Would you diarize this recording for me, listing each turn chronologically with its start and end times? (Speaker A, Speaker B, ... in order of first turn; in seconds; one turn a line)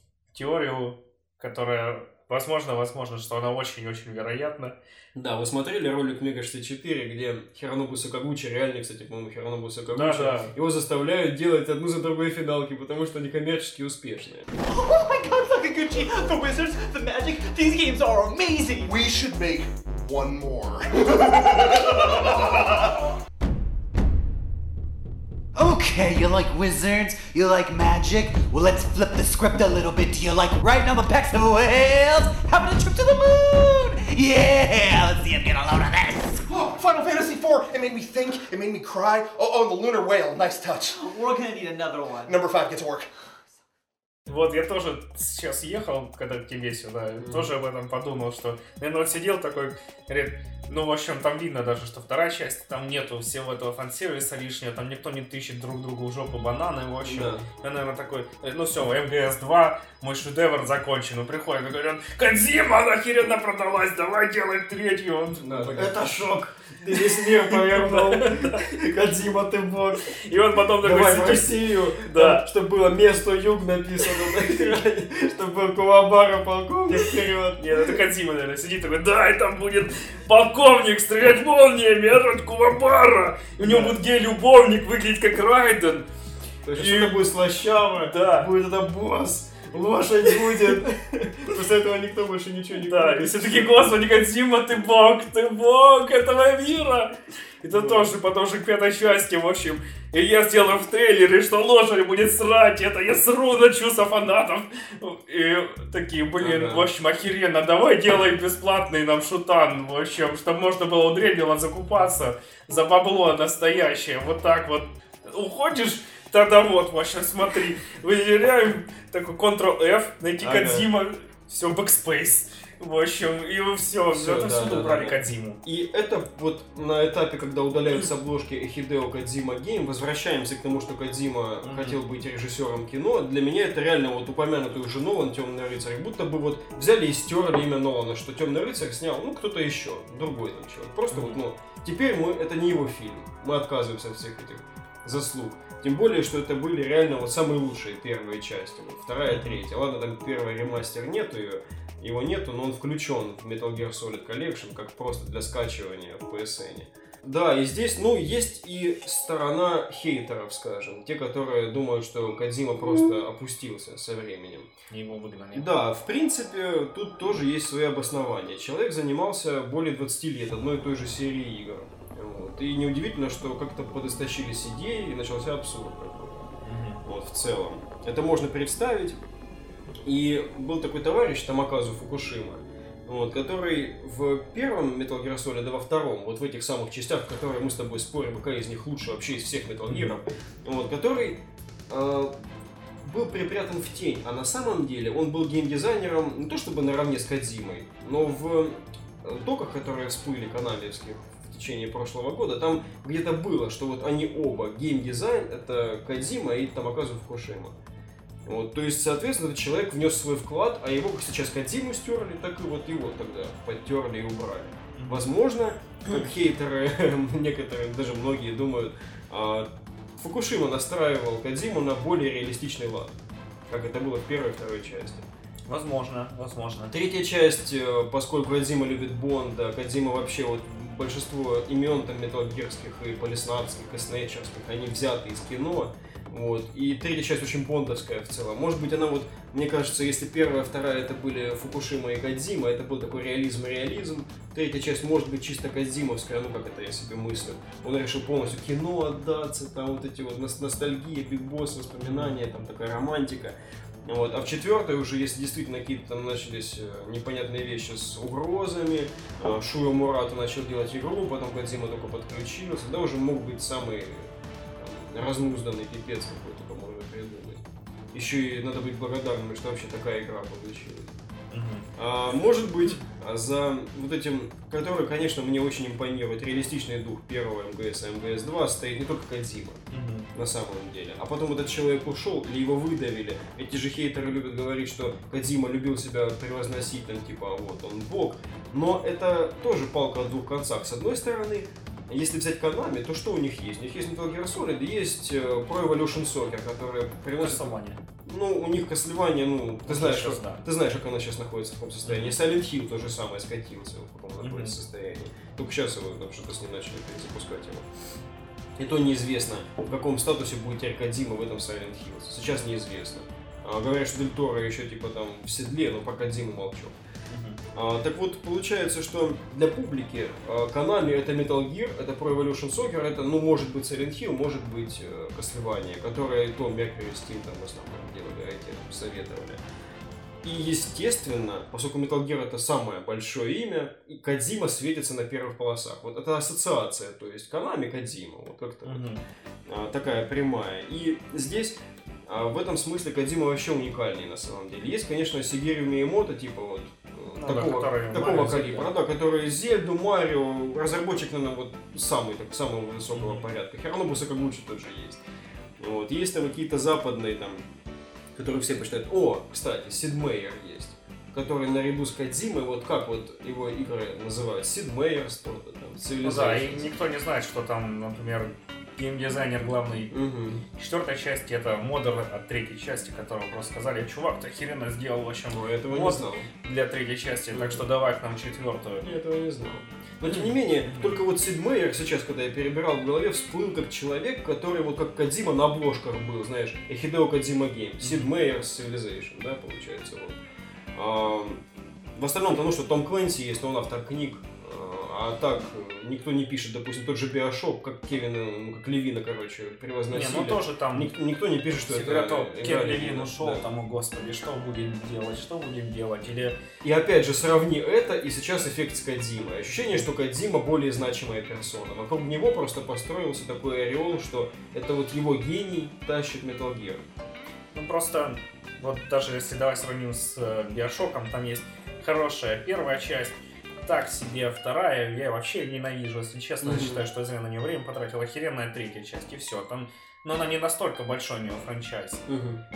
Speaker A: 0.3-4.8
Speaker B: 5.1-14.5
Speaker A: 9.9-10.5
Speaker C: 14.6-18.9
Speaker D: 18.8-22.8
Speaker E: 25.5-36.5
Speaker D: 36.5-41.0
Speaker C: 40.9-42.4
Speaker D: 42.3-43.1
Speaker A: 44.3-66.3
Speaker B: 47.2-47.5
Speaker B: 57.0-57.5
Speaker B: 65.4-70.1
Speaker A: 66.9-68.7
Speaker A: 70.1-72.4
Speaker B: 70.8-78.0
Speaker A: 77.6-86.1
Speaker B: 83.6-84.0
Speaker B: 86.6-93.8
Speaker A: 86.7-87.2
Speaker A: 88.0-88.5
Speaker A: 92.7-125.6
Speaker B: 97.7-98.1
Speaker B: 106.4-106.9
Speaker B: 120.4-120.9
Speaker B: 124.1-164.7
Speaker A: 131.6-132.0
Speaker A: 141.1-141.4
Speaker A: 149.3-149.6
Speaker A: 164.9-165.7
Speaker B: 165.5-176.5
Speaker A: 176.6-177.0
Speaker B: 177.0-179.2
Speaker B: 180.0-192.3
Speaker B: 193.0-207.7
Speaker B: 208.4-225.3
Speaker A: 214.9-215.3
Speaker A: 225.7-227.0
Speaker B: 226.9-271.1
Speaker A: 252.0-252.3
Speaker A: 271.5-271.9
Speaker B: 271.9-279.8
Speaker A: 279.9-280.3
Speaker B: 280.3-307.9
Speaker A: 297.4-298.0
Speaker A: 299.9-300.6
Speaker A: 302.0-302.3
Speaker A: 304.4-304.7
Speaker B: 308.8-316.9
Speaker A: 317.3-317.6
Speaker B: 317.7-329.6
Speaker B: 330.4-339.1
Speaker A: 338.8-339.2
Speaker B: 339.7-355.2
Speaker A: 347.4-348.9
Speaker A: 353.1-353.4
Speaker B: 355.8-357.6
Speaker B: 358.3-366.9
Speaker A: 366.2-370.1
Speaker B: 370.1-370.6
Speaker A: 370.7-379.1
Speaker B: 375.5-376.5
Speaker B: 377.5-377.8
Speaker B: 379.0-390.4
Speaker A: 380.3-381.2
Speaker A: 388.0-388.3
Speaker B: 390.9-391.6
Speaker B: 392.1-403.6
Speaker A: 400.1-401.1
Speaker A: 401.8-406.6
Speaker B: 406.8-417.1
Speaker A: 417.7-432.2
Speaker B: 426.6-427.1
Speaker B: 432.3-432.6